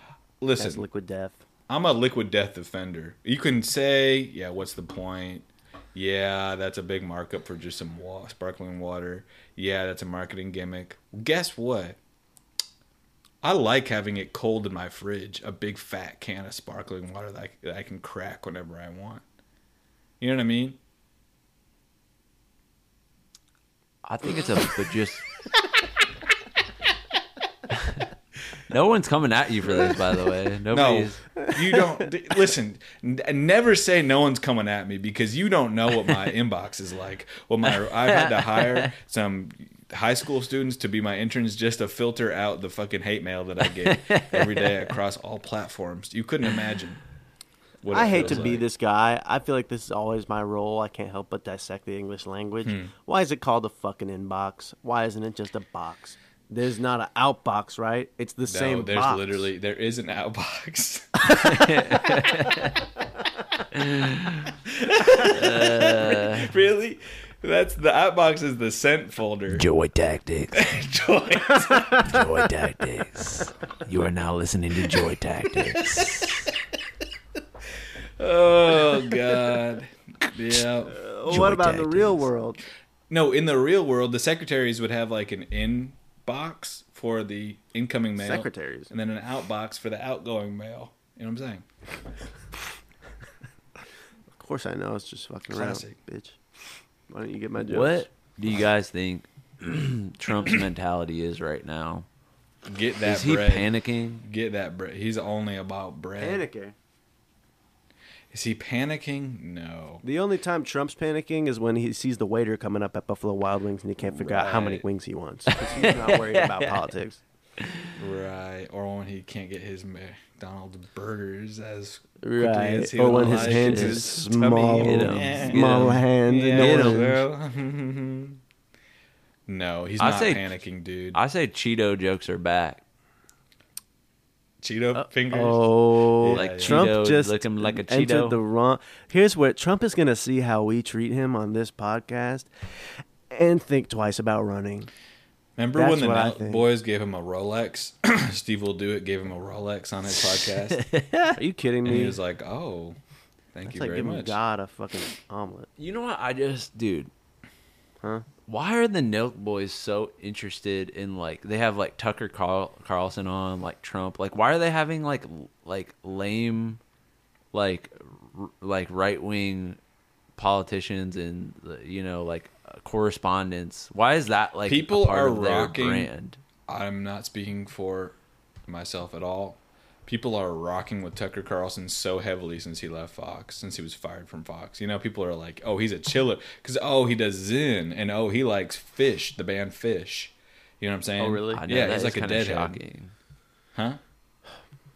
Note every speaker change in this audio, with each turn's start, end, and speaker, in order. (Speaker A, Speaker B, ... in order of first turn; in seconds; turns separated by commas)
Speaker A: 0.4-0.8, Speaker B: 0.6-1.4, Speaker A: 1.7-12.0, Speaker A: 13.4-19.2, Speaker A: 20.2-20.8, Speaker C: 24.0-25.3, Speaker C: 27.8-28.0, Speaker C: 28.7-31.2, Speaker A: 30.7-47.0, Speaker B: 31.4-31.9, Speaker C: 37.9-38.9, Speaker C: 43.9-44.9, Speaker A: 47.8-48.6, Speaker B: 47.9-59.5, Speaker C: 48.0-48.5, Speaker A: 52.6-52.9, Speaker A: 58.5-61.4, Speaker C: 61.4-62.8, Speaker C: 63.7-64.5, Speaker A: 64.8-69.6, Speaker C: 65.1-66.5, Speaker C: 69.5-70.6, Speaker A: 70.5-72.1, Speaker C: 71.8-76.5, Speaker A: 75.8-76.5, Speaker A: 78.2-81.0, Speaker B: 80.9-82.6, Speaker C: 81.3-82.3, Speaker A: 83.1-91.7, Speaker B: 88.2-88.9, Speaker B: 94.3-96.4, Speaker A: 95.5-96.0, Speaker B: 97.1-98.1, Speaker C: 97.6-102.0, Speaker A: 102.7-103.7, Speaker C: 103.0-104.2, Speaker A: 104.2-106.4, Speaker B: 106.2-106.7, Speaker A: 108.3-110.0, Speaker B: 110.0-117.2, Speaker A: 114.1-114.8, Speaker C: 115.5-116.9, Speaker C: 117.6-117.9, Speaker A: 118.0-128.4, Speaker B: 122.2-127.2, Speaker C: 123.1-124.1, Speaker C: 124.7-127.2, Speaker A: 129.5-131.2, Speaker C: 130.0-130.5, Speaker C: 131.1-132.8, Speaker A: 134.6-136.9, Speaker B: 135.3-144.9, Speaker C: 136.3-138.4, Speaker A: 145.6-150.8, Speaker B: 145.7-146.6, Speaker C: 150.1-151.4, Speaker B: 151.3-152.2, Speaker A: 151.8-153.0, Speaker A: 153.5-154.4, Speaker B: 153.6-155.7, Speaker C: 155.8-157.1, Speaker C: 158.4-166.8, Speaker C: 167.5-169.8, Speaker C: 170.4-176.4, Speaker A: 174.7-176.1, Speaker A: 176.7-178.1, Speaker A: 178.7-192.8, Speaker B: 191.2-191.6, Speaker C: 191.5-193.1, Speaker A: 193.7-194.0